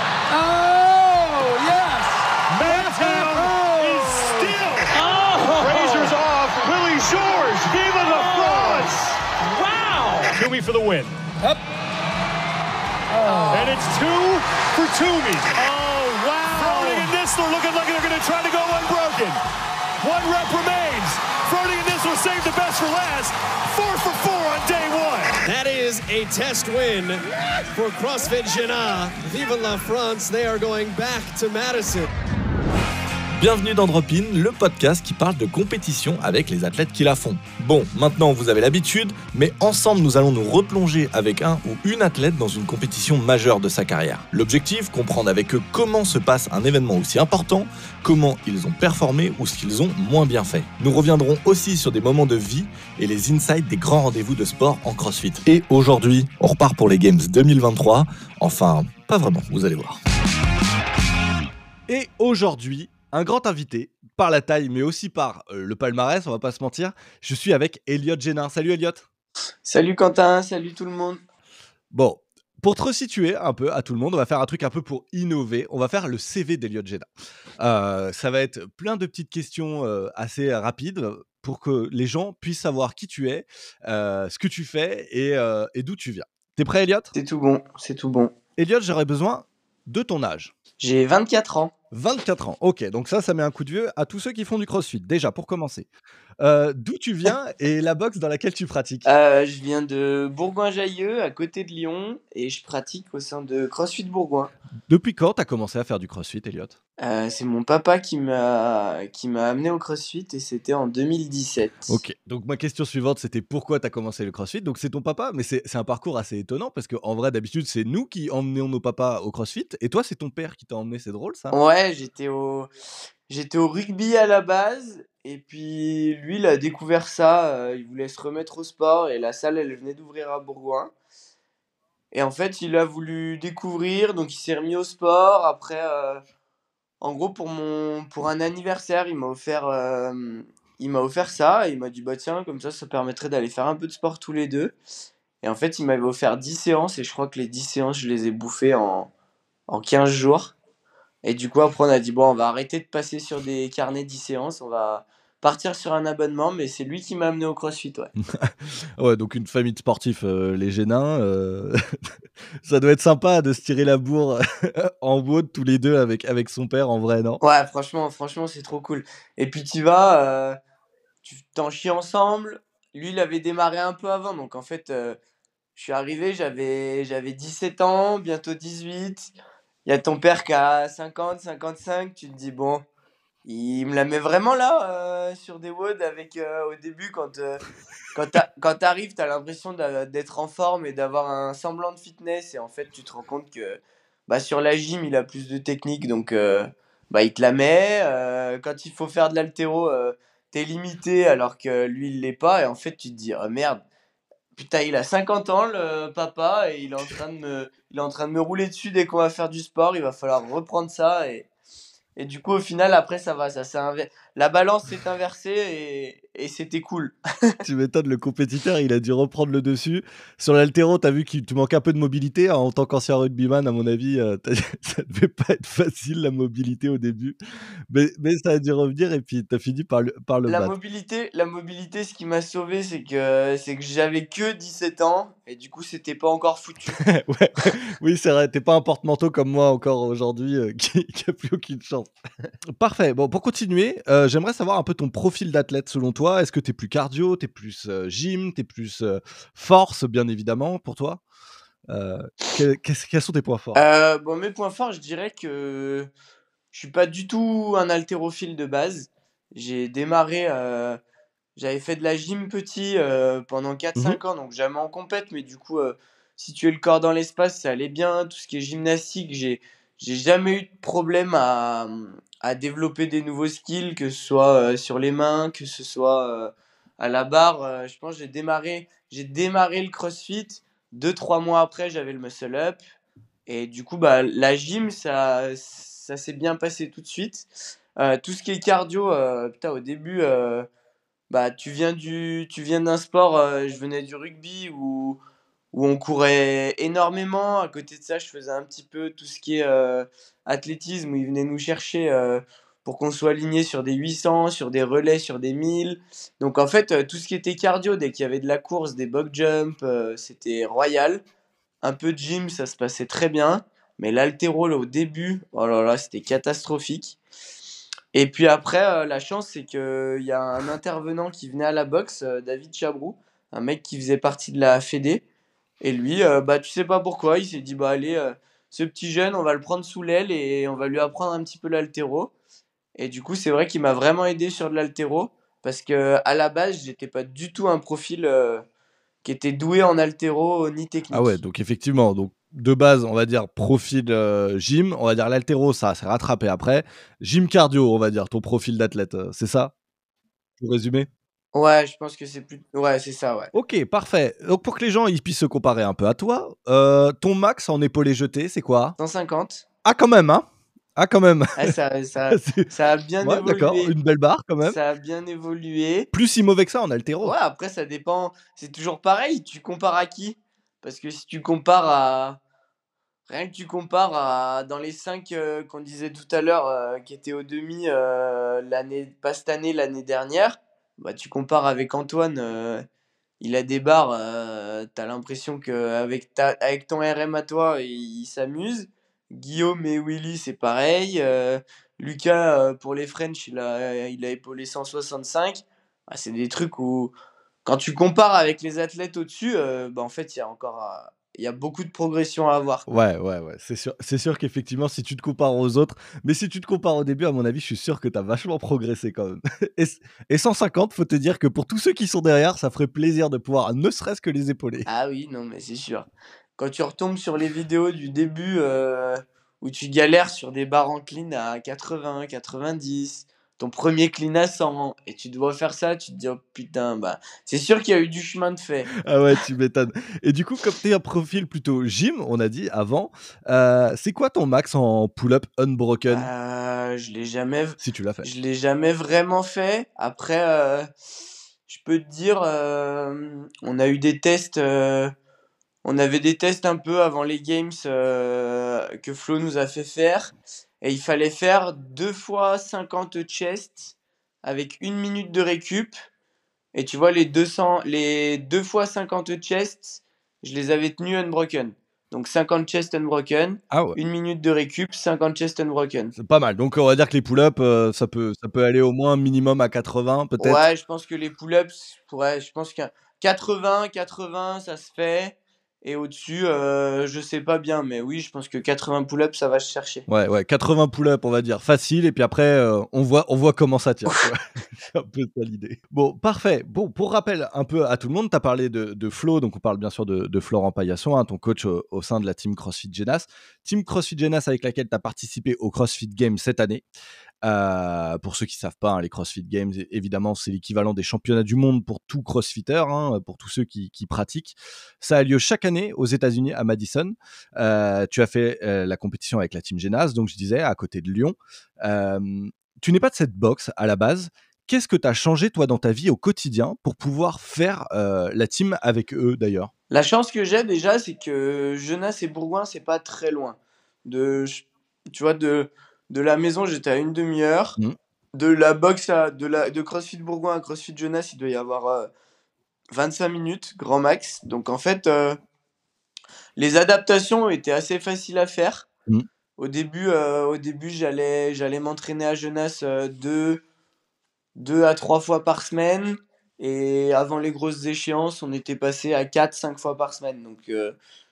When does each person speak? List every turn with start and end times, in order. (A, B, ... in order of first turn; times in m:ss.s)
0:00.3-0:06.2 A
0:02.5-0:04.9 B
0:05.6-0:09.0 B
0:08.0-0:10.4 A
0:10.3-0:11.1 B
0:13.1-0:13.8 A
0:13.5-0:19.4 B
0:16.5-0:17.1 A
0:20.0-0:25.4 B
0:25.4-0:32.1 C
0:33.4-1:00.0 D
1:01.9-1:09.1 D
1:09.6-1:11.2 E
1:11.9-1:17.1 D
1:17.6-1:27.1 D
1:27.1-1:28.3 E
1:28.6-1:30.5 D
1:30.8-1:31.7 E
1:31.9-1:35.9 D
1:36.4-1:39.1 D
1:39.0-1:44.5 E
1:44.9-1:46.8 D
1:47.0-1:52.0 E
1:51.9-2:01.6 D
2:01.5-2:02.7 E
2:03.3-2:10.9 E
2:12.1-2:16.2 E
2:17.0-2:24.7 E
2:25.4-2:29.1 E
2:29.7-2:30.5 E
2:31.2-2:38.1 E
2:38.2-2:42.1 D
2:42.6-2:47.4 D
2:47.4-2:50.6 E
2:51.2-2:55.2 E
2:55.8-2:59.3 E
2:59.9-3:02.8 E
3:03.4-3:07.6 E
3:08.1-3:23.8 E
3:24.6-3:31.5 E
3:32.2-3:37.6 E
3:37.6-3:47.4 D
3:47.9-3:50.7 D
3:50.5-3:57.0 E
3:57.0-4:02.1 D
4:02.8-4:11.2 D
4:11.9-4:13.8 D
4:13.8-4:16.1 E
4:16.7-4:21.0 E
4:21.6-4:42.8 E
4:43.5-4:50.7 E
4:51.3-4:55.2 E
4:55.7-5:11.2 E
5:11.8-5:17.2 E
5:18.1-5:25.2 E
5:25.8-5:32.3 E
5:33.0-5:38.6 E
5:39.2-5:41.4 E
5:41.1-5:49.7 D
5:50.6-5:51.1 D
5:51.5-5:53.5 E
5:53.5-5:59.0 D
5:59.0-5:59.6 E
5:59.8-6:01.7 D
6:01.6-6:03.9 E
6:02.3-6:02.7 D
6:03.2-6:04.8 D
6:04.6-6:06.1 E
6:06.1-6:07.4 D
6:07.2-6:12.4 E
6:13.3-6:22.8 E
6:23.4-6:37.1 E
6:37.6-6:42.9 E
6:42.9-6:54.9 D
6:54.9-7:08.9 E
7:08.9-7:16.3 D
7:16.1-7:20.9 E
7:17.8-7:18.3 D
7:21.7-7:25.1 E
7:25.8-7:35.9 E
7:36.7-7:46.1 E
7:43.7-7:44.0 D
7:46.2-7:50.6 D
7:50.4-8:00.1 E
8:00.1-8:16.8 D
8:17.4-8:39.7 D
8:39.9-8:47.8 E
8:48.3-8:52.1 E
8:52.9-8:55.4 E
8:56.6-8:58.9 E
8:59.6-9:03.6 E
9:04.6-9:11.0 E